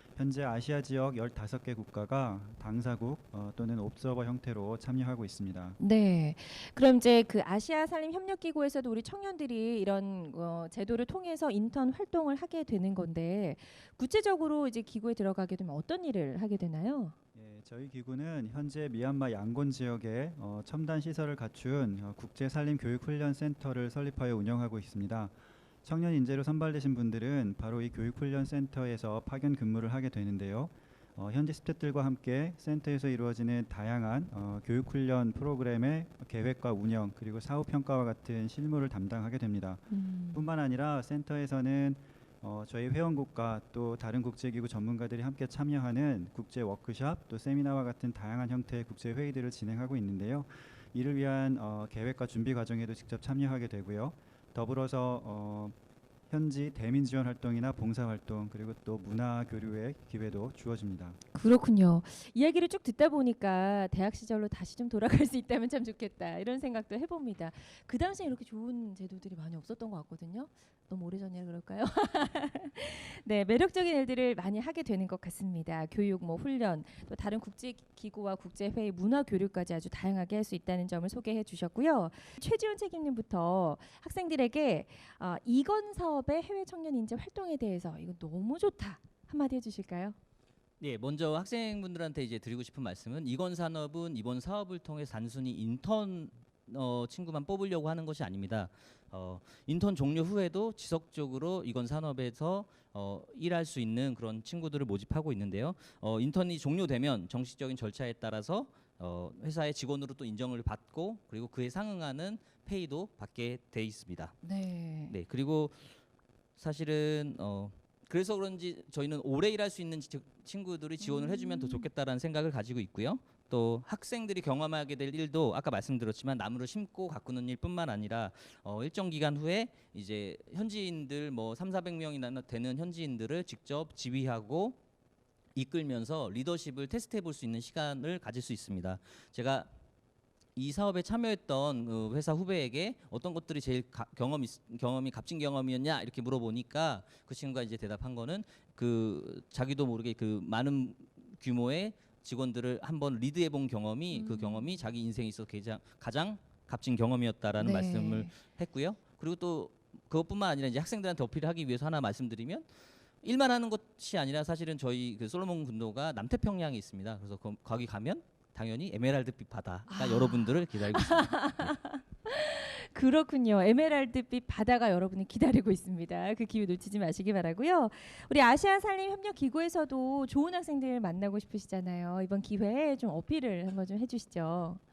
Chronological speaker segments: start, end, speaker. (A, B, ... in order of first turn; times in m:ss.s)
0:00.2-0:05.8 A
0:05.8-0:17.1 B
0:17.3-0:55.7 A
0:39.9-0:40.5 B
0:56.3-1:01.2 A
1:01.3-1:30.2 B
1:30.8-1:54.4 C
1:54.4-1:55.2 B
1:55.1-1:55.9 C
1:56.6-2:14.8 C
2:01.0-2:01.9 B
2:15.5-2:19.7 C
2:20.6-2:42.6 C
2:34.1-2:34.8 B
2:37.6-2:38.3 B
2:43.2-2:51.7 C
2:49.9-3:04.8 B